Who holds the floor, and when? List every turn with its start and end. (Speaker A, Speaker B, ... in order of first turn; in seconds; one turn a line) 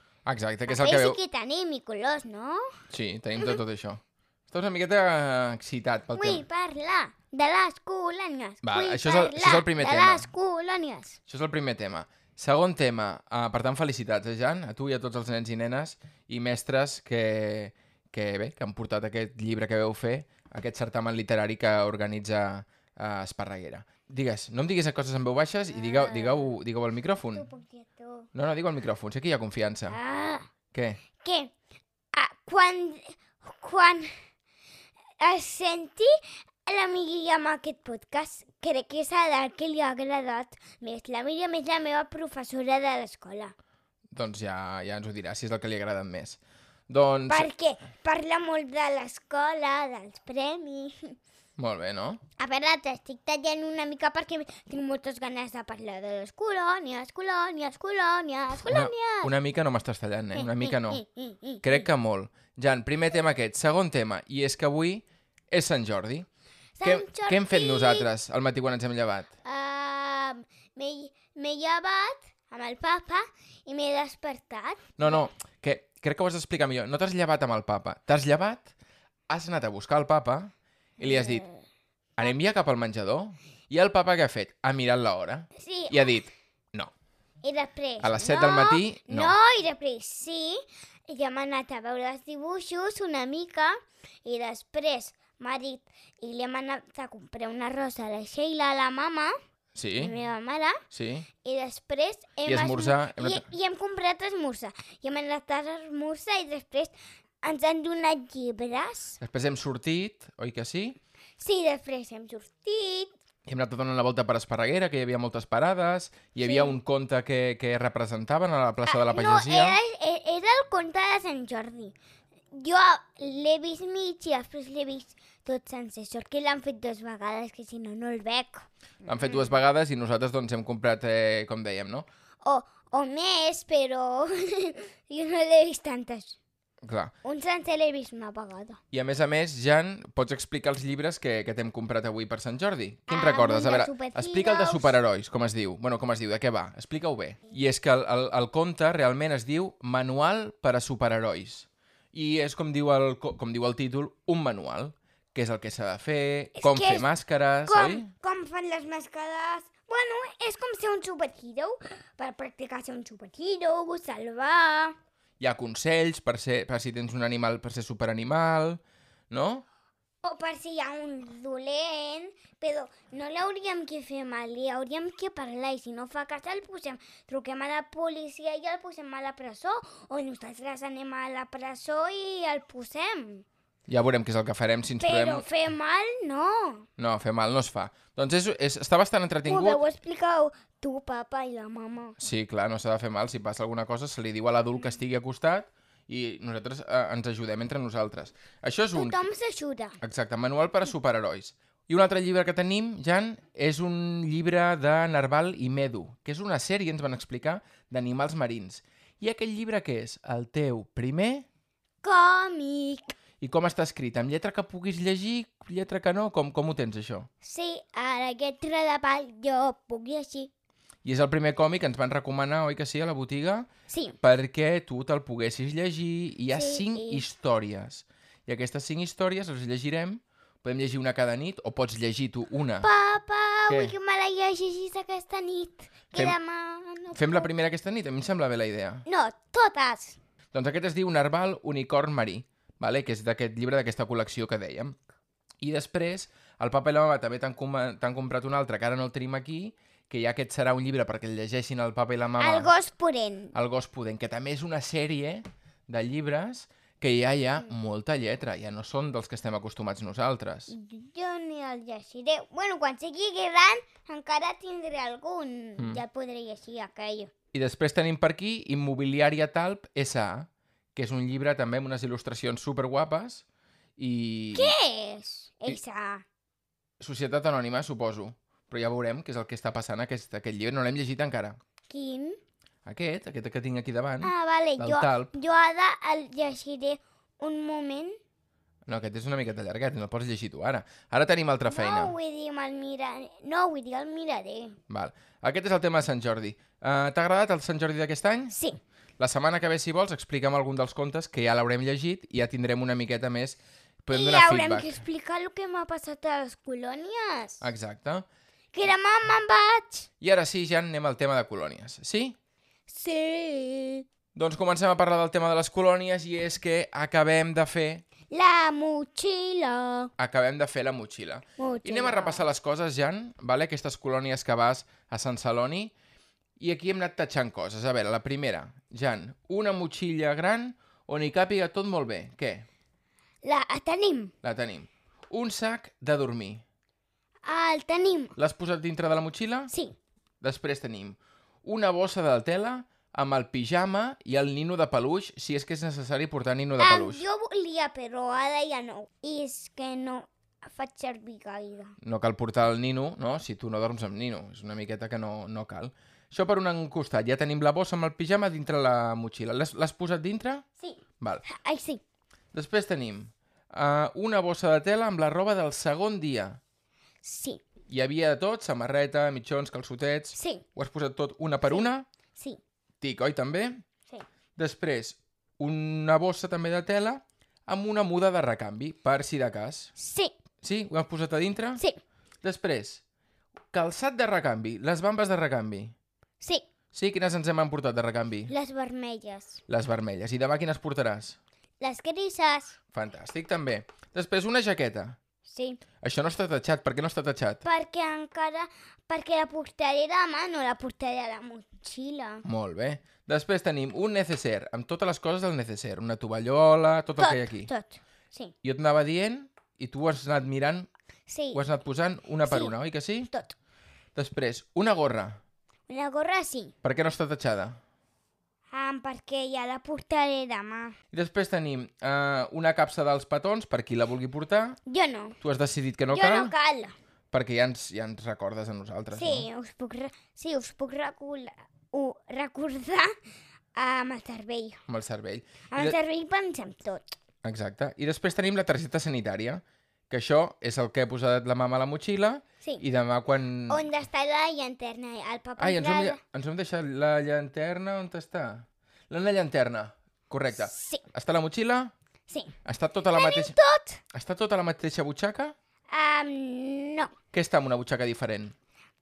Speaker A: 0.2-1.2
Speaker B: 0.7-2.6
Speaker A: 2.9-6.4
Speaker B: 6.1-11.2
Speaker A: 8.6-10.3
Speaker A: 11.3-27.4
Speaker B: 25.7-26.6
Speaker B: 27.3-28.3
Speaker A: 28.3-30.0
Speaker B: 29.9-30.5
Speaker A: 30.7-31.0
Speaker B: 31.2-31.5
Speaker B: 32.1-34.1
Speaker B: 35.2-36.1
Speaker B: 36.6-43.5
Speaker A: 44.1-47.5
Speaker B: 47.3-51.1
Speaker A: 51.6-52.2
Speaker B: 52.4-59.3
Speaker A: 58.6-61.0
Speaker B: 60.3-61.9
Speaker A: 61.6-66.3
Speaker B: 66.8-68.1
Speaker A: 66.8-69.3
Speaker B: 69.4-75.2
Speaker A: 75.0-78.7
Speaker A: 79.3-81.4
Speaker B: 81.0-81.6
Speaker A: 82.2-86.9
Speaker B: 85.5-86.1
Speaker B: 87.4-99.3
Speaker A: 88.0-89.4
Speaker A: 99.7-100.1
Speaker B: 100.0-100.8
Speaker A: 100.9-101.3
Speaker B: 101.4-109.2
Speaker A: 102.5-103.4
Speaker A: 109.2-111.0
Speaker B: 111.4-113.1
Speaker A: 113.5-119.8
Speaker B: 116.4-116.8
Speaker B: 118.8-122.0
Speaker B: 122.5-128.7
Speaker A: 129.0-132.1
Speaker B: 129.2-129.5
Speaker B: 132.4-136.4
Speaker A: 136.8-137.1
Speaker B: 137.2-138.8
Speaker A: 138.9-158.1
Speaker B: 143.1-145.0
Speaker B: 156.6-157.1
Speaker B: 157.6-164.9
Speaker A: 165.4-169.7
Speaker B: 170.2-183.4
Speaker A: 183.9-185.4
Speaker B: 185.0-186.9
Speaker A: 187.0-189.8
Speaker B: 189.4-192.2
Speaker A: 192.2-199.2
Speaker B: 198.9-200.0
Speaker A: 200.0-211.4
Speaker B: 212.0-213.1
Speaker A: 213.4-217.3
Speaker B: 217.4-220.5
Speaker A: 221.0-223.7
Speaker B: 223.9-224.2
Speaker A: 224.2-232.9
Speaker B: 226.5-227.2
Speaker B: 232.8-237.5
Speaker A: 233.7-233.9
Speaker A: 237.1-239.0
Speaker B: 239.1-240.2
Speaker A: 240.5-244.9
Speaker A: 245.6-252.7
Speaker B: 252.4-253.5
Speaker A: 253.5-260.7
Speaker B: 260.7-267.3
Speaker A: 267.5-273.4
Speaker A: 274.0-274.7
Speaker B: 274.5-276.2
Speaker A: 277.0-281.6
Speaker B: 281.9-282.4
Speaker A: 282.8-285.3
Speaker B: 284.2-288.2
Speaker A: 288.9-292.1
Speaker B: 291.6-294.8
Speaker A: 294.9-298.6
Speaker B: 298.5-298.8
Speaker A: 299.2-304.9
Speaker B: 304.1-307.7
Speaker A: 307.6-308.2
Speaker B: 308.7-310.1
Speaker A: 310.2-312.4
Speaker B: 312.9-314.1
Speaker A: 314.3-318.0
Speaker B: 318.3-320.1
Speaker A: 320.2-325.9
Speaker B: 321.6-322.4
Speaker A: 326.6-332.7
Speaker B: 333.4-334.3
Speaker A: 334.4-336.6
Speaker B: 337.4-338.3
Speaker A: 338.4-339.7
Speaker B: 339.7-339.9
Speaker A: 340.4-347.2
Speaker B: 346.8-351.9
Speaker A: 352.0-360.6
Speaker B: 360.8-362.0
Speaker A: 362.5-366.6
Speaker B: 367.2-367.6
Speaker A: 367.9-372.1
Speaker B: 370.3-370.6
Speaker B: 371.7-372.6
Speaker A: 373.0-373.8
Speaker A: 374.6-379.9
Speaker B: 379.9-380.3
Speaker A: 380.6-381.8
Speaker A: 382.4-383.0
Speaker A: 383.7-385.9
Speaker B: 386.4-386.7
Speaker A: 386.9-388.5
Speaker B: 388.5-389.6
Speaker A: 389.7-391.4
Speaker B: 391.8-392.8
Speaker A: 392.9-395.2
Speaker B: 395.4-395.8
Speaker A: 396.0-397.6
Speaker B: 397.6-402.4
Speaker A: 402.4-407.7
Speaker B: 407.2-408.5
Speaker A: 408.6-410.9
Speaker B: 411.3-411.6
Speaker A: 411.5-413.3
Speaker B: 412.4-412.8
Speaker B: 413.3-413.5
Speaker A: 414.1-415.4
Speaker B: 415.9-416.7
Speaker A: 416.8-417.8
Speaker B: 418.7-421.0
Speaker A: 421.1-424.8
Speaker B: 424.9-425.4
Speaker A: 425.4-426.5
Speaker B: 426.1-426.9
Speaker A: 427.3-429.5
Speaker B: 429.1-433.1
Speaker B: 433.7-434.8
Speaker A: 434.9-435.9
Speaker B: 435.7-437.1
Speaker A: 437.4-443.9
Speaker B: 443.7-446.2
Speaker A: 445.6-451.9
Speaker B: 450.6-451.0
Speaker B: 452.3-452.5
Speaker A: 452.6-453.6
Speaker B: 453.1-454.0
Speaker A: 454.1-455.5
Speaker B: 455.9-457.1
Speaker A: 457.3-458.5